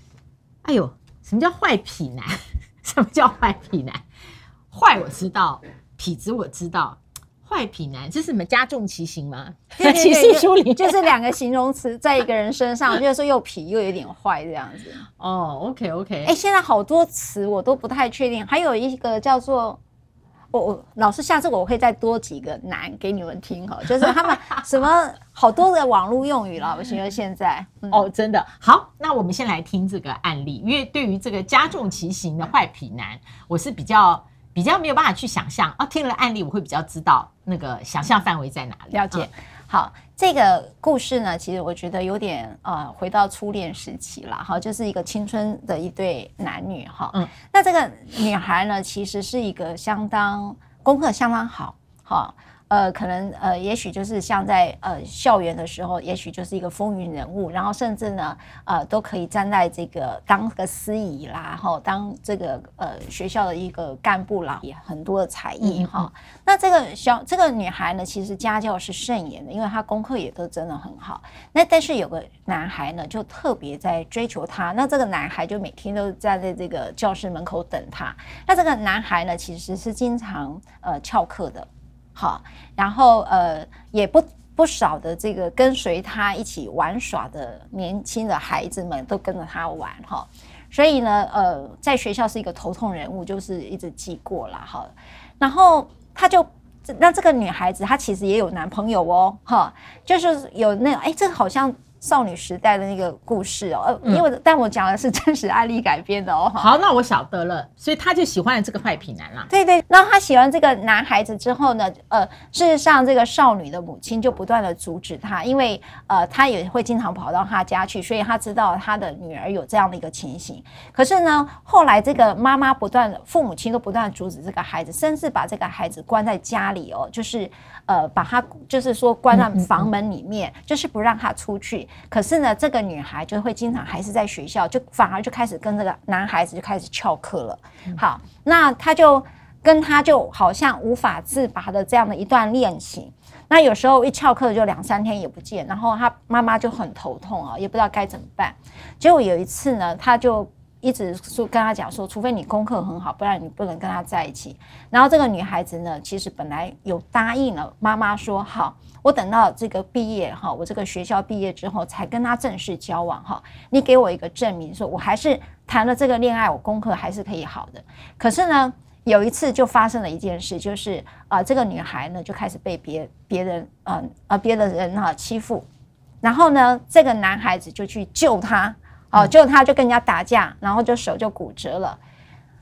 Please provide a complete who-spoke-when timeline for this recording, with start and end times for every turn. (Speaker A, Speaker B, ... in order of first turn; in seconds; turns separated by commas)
Speaker A: 0.6-4.0, Speaker A: 4.7-11.1, Speaker B: 9.8-15.1, Speaker A: 15.2-16.3, Speaker B: 16.2-19.8, Speaker B: 20.5-28.1, Speaker A: 27.9-39.3, Speaker B: 38.9-106.7, Speaker A: 65.6-66.1, Speaker A: 106.5-109.5, Speaker B: 109.5-175.7, Speaker A: 129.3-129.9, Speaker B: 176.2-182.0